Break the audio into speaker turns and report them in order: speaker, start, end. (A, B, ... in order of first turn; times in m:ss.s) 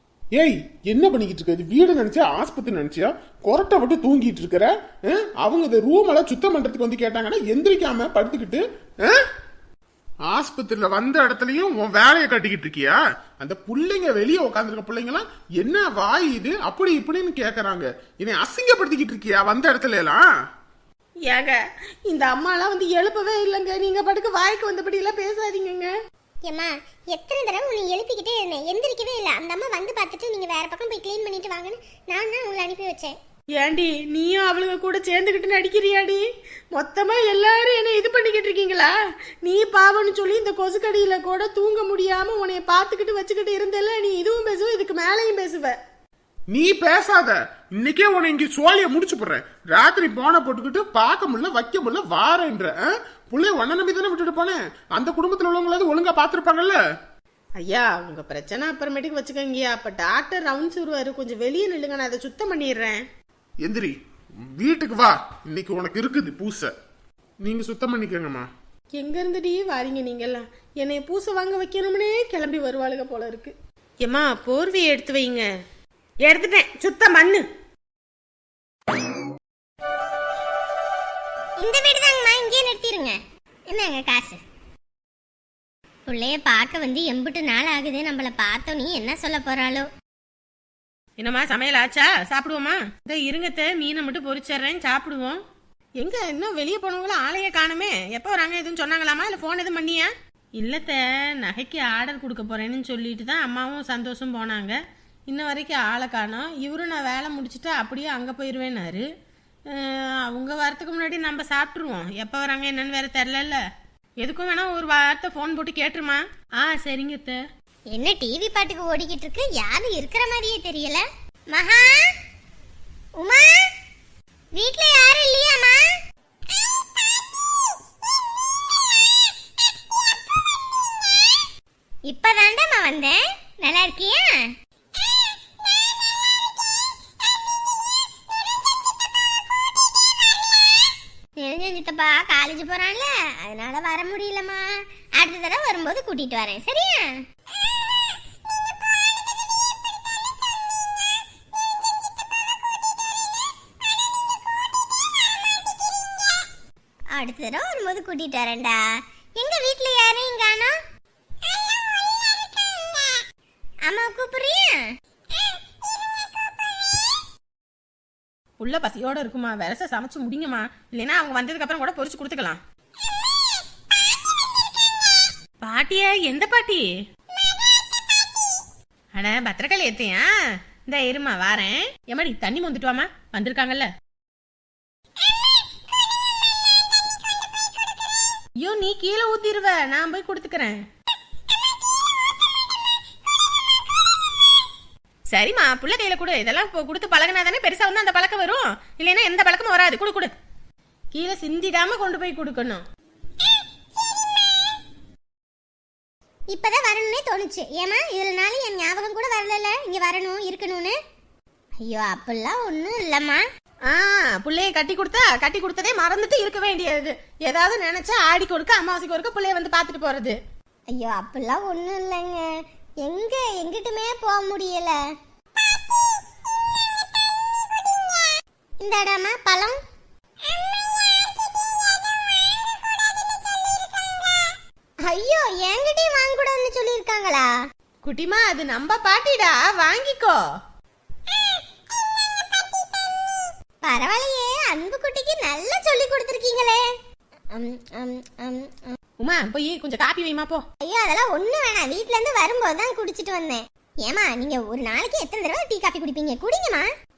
0:00.3-0:09.2 A
0:10.3-0:20.2 A
0:21.3-0:25.9 B
0:26.4-0:33.2 C
0:33.6-0:45.8 B
0:46.5-0:52.7 A
0:53.3-0:56.8 A
0:57.6-1:03.0 B
1:03.6-1:06.7 A
1:07.4-1:08.5 A
1:09.0-1:15.5 B
1:16.2-1:17.4 B
1:21.6-1:23.2 C
1:23.7-1:24.4 C
1:26.1-1:29.9 C
1:31.2-1:35.4 B
1:36.0-1:44.8 B
1:45.3-1:49.0 B
1:49.7-1:53.6 B
1:54.2-1:57.4 B
1:57.9-2:02.0 C
2:03.2-2:03.6 C
2:04.5-2:05.9 C
2:12.1-2:14.5 C
2:21.4-2:27.2 C
2:37.1-2:38.8 C
2:39.4-2:40.7 C
2:41.5-2:43.2 C
2:43.9-2:44.9 C
2:48.6-2:52.6 B
2:55.6-2:56.8 B
2:59.1-3:00.3 B
3:00.9-3:03.9 B
3:08.6-3:10.8 B
3:15.3-3:20.3 B
3:21.1-3:22.8 B
3:26.5-3:31.0 C
3:31.8-3:33.4 C
3:33.9-3:40.4 B
3:40.9-3:42.4 C
3:43.0-3:45.0 C
3:47.8-3:48.2 C
3:48.8-3:49.8 C
3:53.3-3:54.5 C
3:55.0-3:57.5 C
3:58.0-4:00.4 B
4:03.3-4:06.9 C
4:07.5-4:09.0 C
4:09.2-4:10.6 B
4:10.8-4:16.9 C